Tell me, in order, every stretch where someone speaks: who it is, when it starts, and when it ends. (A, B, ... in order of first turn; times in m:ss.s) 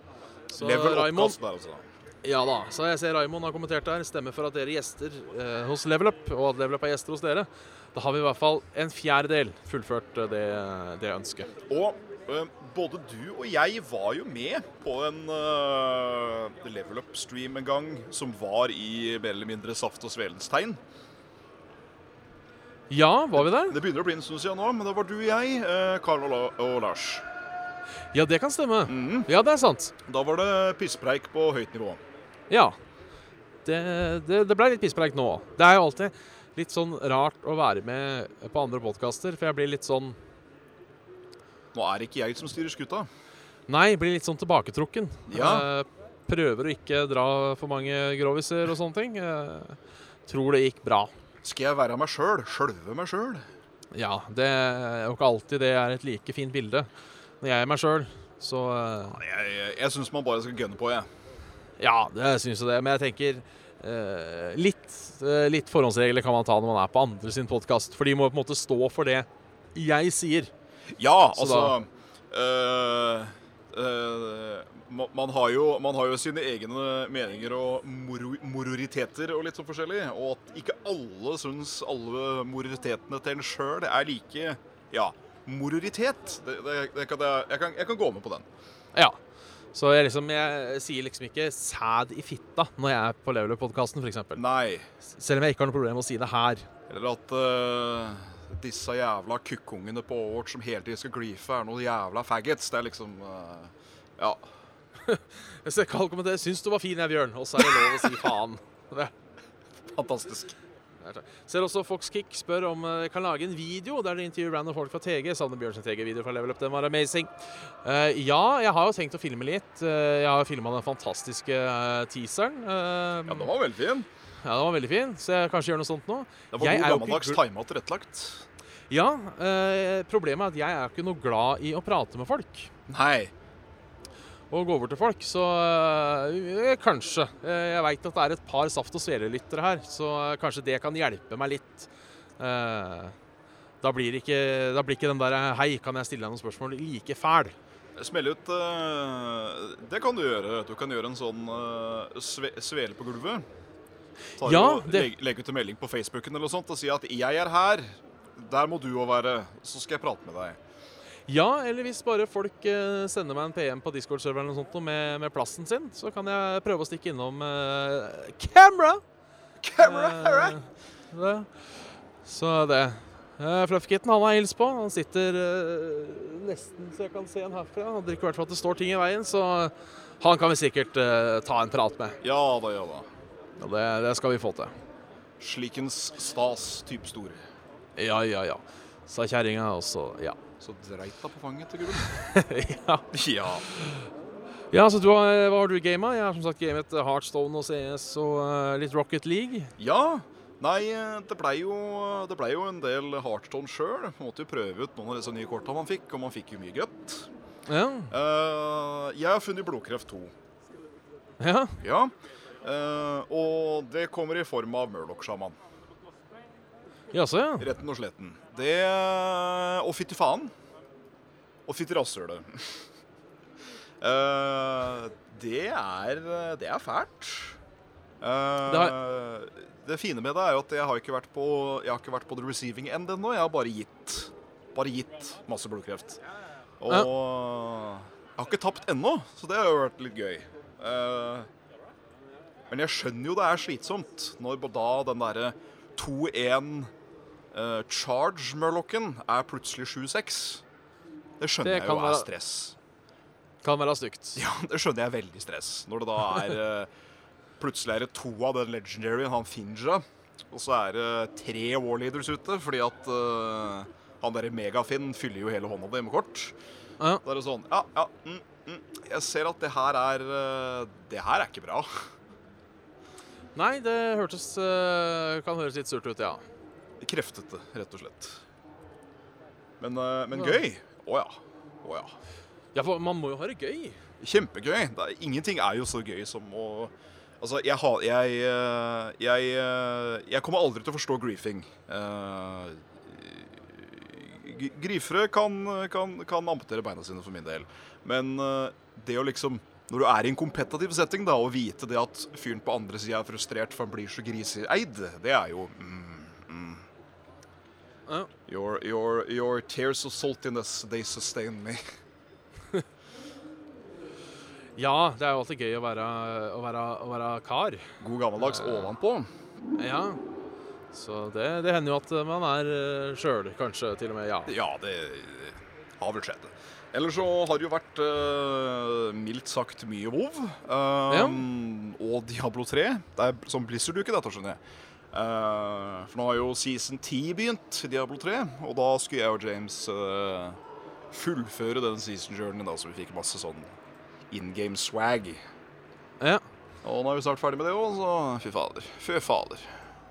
0:00.5-0:01.4 A
0:00.6-0:01.9 B
0:02.2-0:11.5 A
0:11.7-0:20.8 B
0:22.9-0:23.8 A
0:23.4-0:27.2 B
0:28.1-0:29.9 A
0:28.9-0:29.3 B
0:30.1-0:32.0 B
0:32.5-0:32.8 A
0:33.6-0:40.2 A
0:41.7-0:43.1 B
0:43.7-0:51.1 A
0:45.3-0:45.7 B
0:51.4-0:53.5 B
0:53.9-0:56.9 A
0:57.4-0:59.2 A
0:59.1-1:01.1 B
1:01.8-1:10.5 A
1:10.9-1:28.5 B
1:11.4-1:11.7 A
1:29.7-1:34.4 A
1:34.4-1:34.9 B
1:35.0-1:36.7 A
1:36.9-1:44.4 B
1:45.0-1:49.1 A
1:49.9-1:50.5 B
1:51.0-2:03.5 A
2:03.3-2:04.1 B
2:04.4-2:07.4 A
2:06.5-2:08.5 B
2:08.9-2:12.7 A
2:12.9-2:13.3 B
2:14.5-2:23.2 A
2:23.8-2:27.6 A
2:28.0-2:33.4 B
2:34.4-2:40.6 B
2:34.4-2:35.1 A
2:41.3-2:49.0 A
2:49.6-2:50.6 B
2:49.8-2:51.5 A
2:52.2-3:02.2 A
3:02.2-3:03.1 B
3:03.6-3:04.7 A
3:05.4-3:07.4 B
3:08.0-3:10.4 A
3:10.6-3:12.2 B
3:12.1-3:13.1 A
3:13.1-3:13.7 B
3:13.7-3:14.1 A
3:14.7-3:19.7 A
3:19.8-3:27.3 B
3:27.7-3:28.1 A
3:28.1-3:30.3 B
3:31.4-3:31.8 A
3:31.8-3:35.6 B
3:37.1-3:37.7 A
3:37.6-3:40.5 B
3:41.7-3:42.8 B
3:44.0-3:47.6 B
3:48.2-3:56.2 B
3:48.7-3:48.9 A
3:56.8-4:01.5 B
4:02.7-4:06.9 B
4:07.5-4:10.6 B
4:11.4-4:12.8 B
4:11.6-4:12.3 A
4:13.6-4:14.4 A
4:14.4-4:16.9 B
4:17.6-4:26.6 B
4:27.2-4:32.1 B
4:33.6-4:36.4 A
4:37.0-4:38.4 B
4:39.8-4:42.1 B
4:40.4-4:40.6 A
4:42.8-4:44.0 A
4:44.2-5:06.9 B
5:08.5-5:11.8 B
5:14.8-5:18.9 A
5:18.0-5:19.3 B
5:19.8-5:20.2 A
5:20.9-5:24.5 A
5:24.5-5:34.6 B
5:31.1-5:31.4 A
5:35.1-5:40.6 B
5:41.1-5:43.7 B
5:44.3-5:45.4 B
5:46.8-5:49.7 B